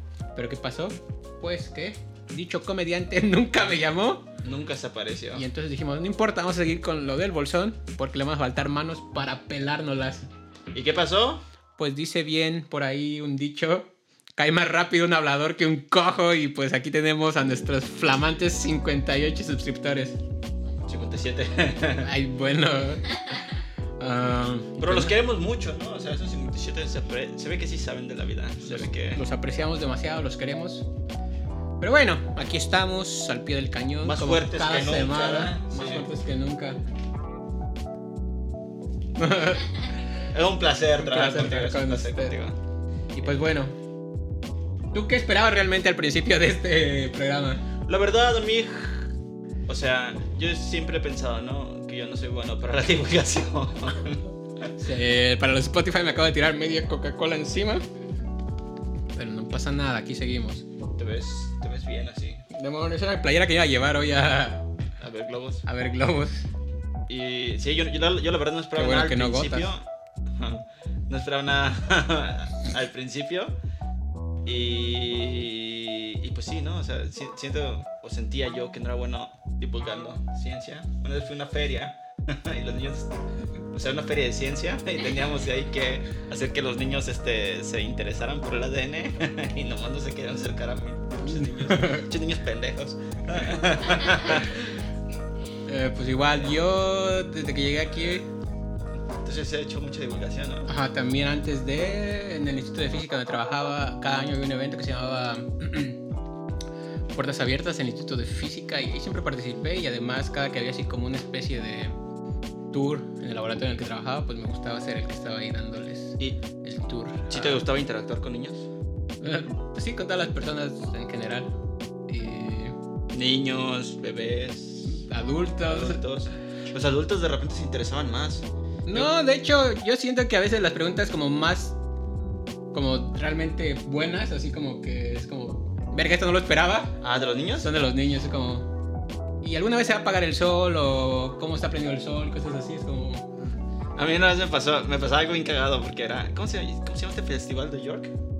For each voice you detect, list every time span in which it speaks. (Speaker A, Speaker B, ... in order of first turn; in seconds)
Speaker A: 0.3-4.3, 5.3-10.3, 11.8-20.2, 22.0-23.4, 24.0-25.1, 28.6-30.9, 31.8-36.8, 39.1-39.9, 41.0-42.4, 43.1-43.7, 44.9-47.6, 54.8-57.8, 59.1-60.6, 62.5-64.6, 65.6-66.5, 68.7-69.7, 91.3-92.1, 95.6-98.3, 100.7-106.0, 107.1-111.9, 112.7-117.6, 119.2-121.5, 122.1-122.8, 124.9-126.0, 128.8-131.8, 132.7-137.0, 137.6-138.7, 139.4-143.3
Speaker B: 4.4-5.5, 10.7-11.4, 20.9-22.1, 24.8-29.2, 34.0-36.1, 40.3-42.6, 47.9-49.1, 49.7-54.3, 61.0-62.4, 65.0-65.6, 67.1-73.5, 74.4-83.2, 83.7-94.8, 99.2-100.7, 117.3-118.7, 123.1-125.0, 125.6-129.1, 137.0-137.7, 143.9-148.1